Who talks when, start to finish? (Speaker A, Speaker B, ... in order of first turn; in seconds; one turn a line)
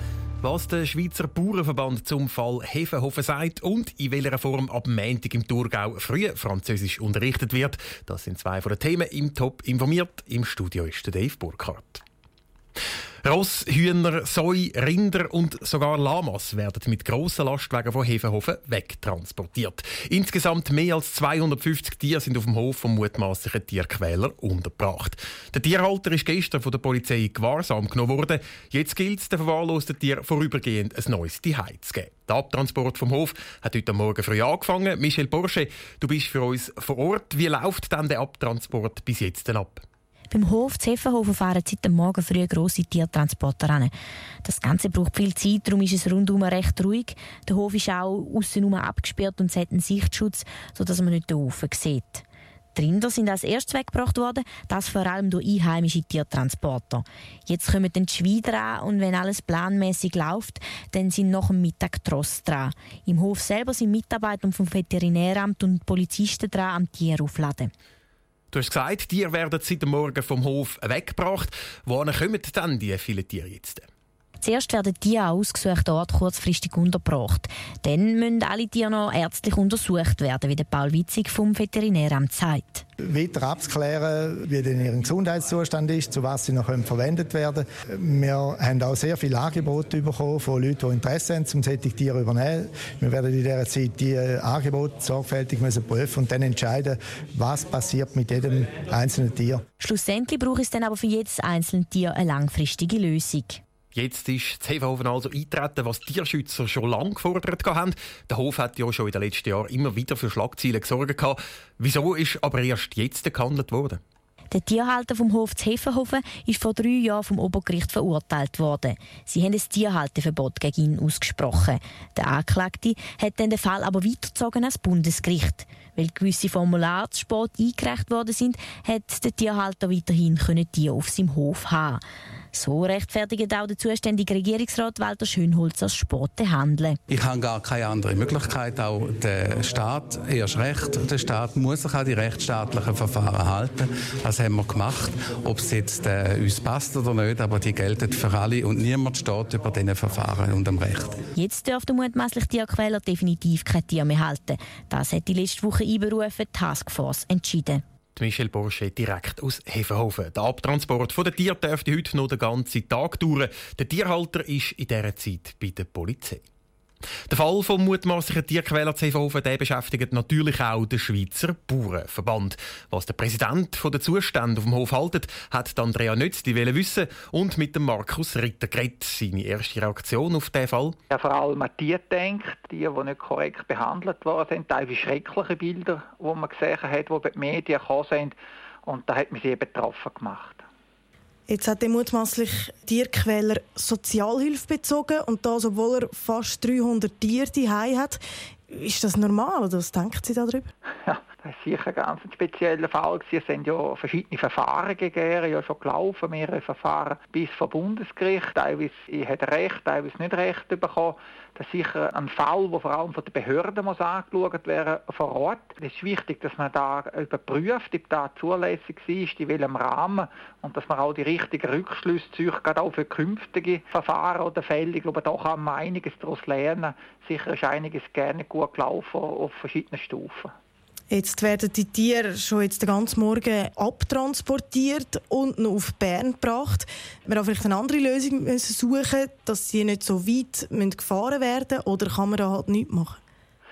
Speaker A: 0.4-12.0
Speaker A: 13.2-39.9
Speaker B: 40.3-43.9
Speaker B: 44.4-52.2
Speaker B: 52.8-67.7
Speaker A: 68.5-73.9
Speaker B: 74.4-82.8
Speaker C: 83.1-99.6
Speaker B: 99.8-103.6
Speaker A: 103.9-114.0
Speaker B: 114.5-132.0
Speaker B: 132.5-137.0
Speaker D: 137.1-151.2
Speaker B: 151.4-157.8
Speaker A: 158.2-166.5
Speaker A: 167.3-181.0
Speaker E: 181.1-188.3
Speaker E: 188.9-190.6
Speaker F: 191.5-200.7
Speaker E: 201.1-230.5
Speaker F: 231.1-243.2